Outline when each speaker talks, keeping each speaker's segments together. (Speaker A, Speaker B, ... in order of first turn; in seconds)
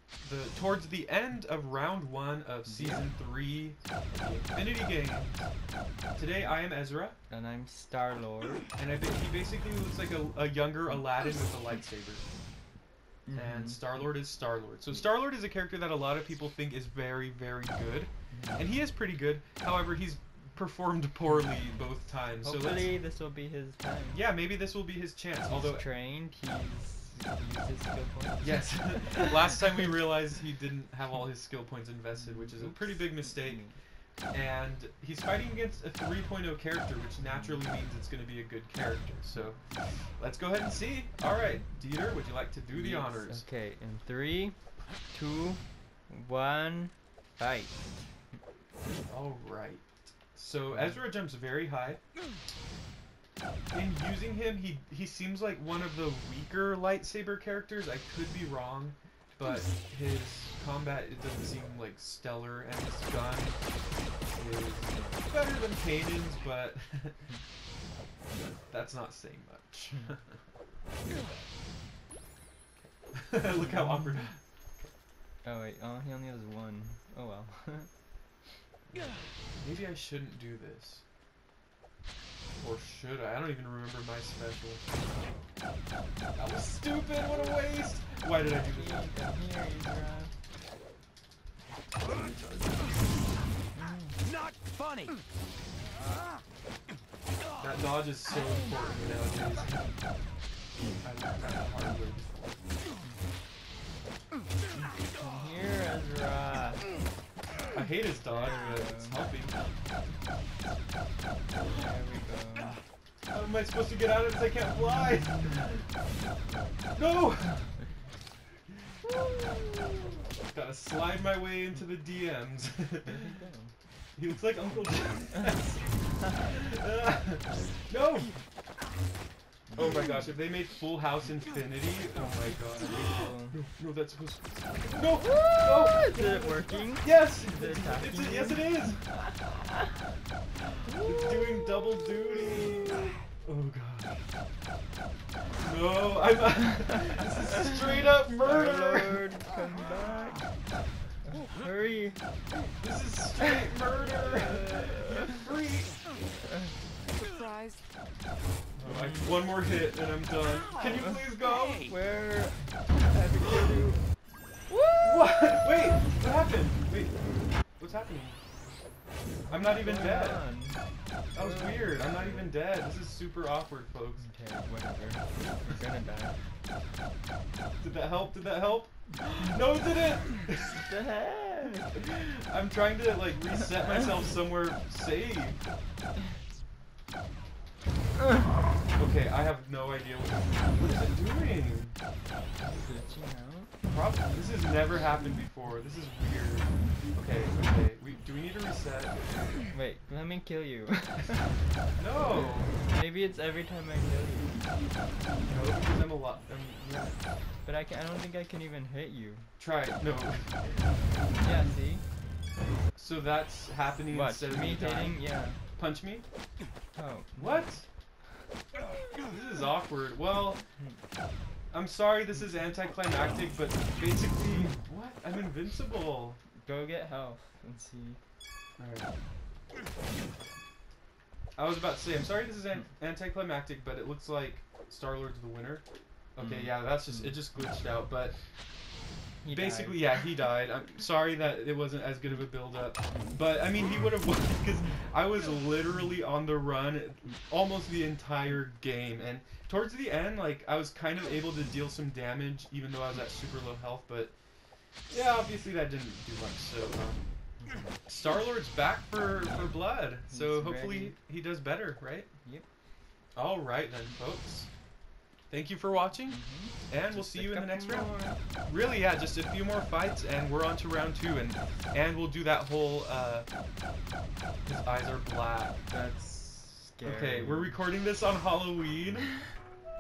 Speaker A: 0.2-5.5, 6.2-7.2, 8.8-12.2, 13.3-22.9, 24.1-25.8, 28.4-33.6, 34.3-43.4, 49.1-52.0, 53.7-63.6, 64.3-67.2, 68.4-70.4, 72.8-74.9, 78.9-81.0, 82.6-85.1, 86.4-89.1, 92.0-93.1, 97.6-100.0, 101.0-102.7, 107.7-109.6, 113.3-115.8, 117.0-117.7, 120.5-123.1, 124.2-128.4, 129.8-139.0, 140.8-144.3, 145.6-149.2, 152.8-156.1, 158.8-161.9, 165.0-167.2, 167.8-168.4, 169.5-170.4, 171.3-174.3, 177.8-180.8, 182.0-185.6, 189.0-192.0, 193.9-199.6, 202.0-202.7, 205.4-207.2, 209.6-211.3, 212.9-215.2, 215.8-216.2, 217.4-217.9, 219.2-220.6, 221.7-226.4, 228.8-229.1, 231.6-235.8, 236.3-238.4, 239.5-254.3, 255.1-257.2, 258.1-262.3, 263.4-264.7, 265.5-268.1, 268.7-273.5, 274.6-275.8, 277.0-279.4
Speaker B: 2.6-3.1, 7.3-8.7, 13.3-13.8, 18.3-18.6, 22.4-24.3, 25.5-29.4, 32.1-33.8, 37.3-37.6, 42.7-48.0, 50.7-51.0, 64.8-65.2, 73.6-74.2, 75.4-77.9, 88.4-90.3, 93.7-94.2, 104.8-106.9, 108.3-109.2, 111.6-112.8, 114.9-115.5, 116.5-116.8, 123.1-123.7, 132.2-133.6, 135.0-139.3, 140.9-143.2, 148.4-150.5, 151.3-152.2, 154.7-155.2, 158.8-159.5, 161.8-164.0, 164.7-165.3, 169.6-170.8, 171.4-172.6, 174.2-176.3, 180.7-182.0, 192.6-193.7, 199.7-201.5, 202.8-204.7, 207.6-209.5, 211.4-212.0, 214.1-215.6, 216.9-217.8, 226.6-228.2, 236.4-237.4, 239.4-240.3, 257.6-258.0, 259.4-261.2, 266.3-268.4, 275.9-277.8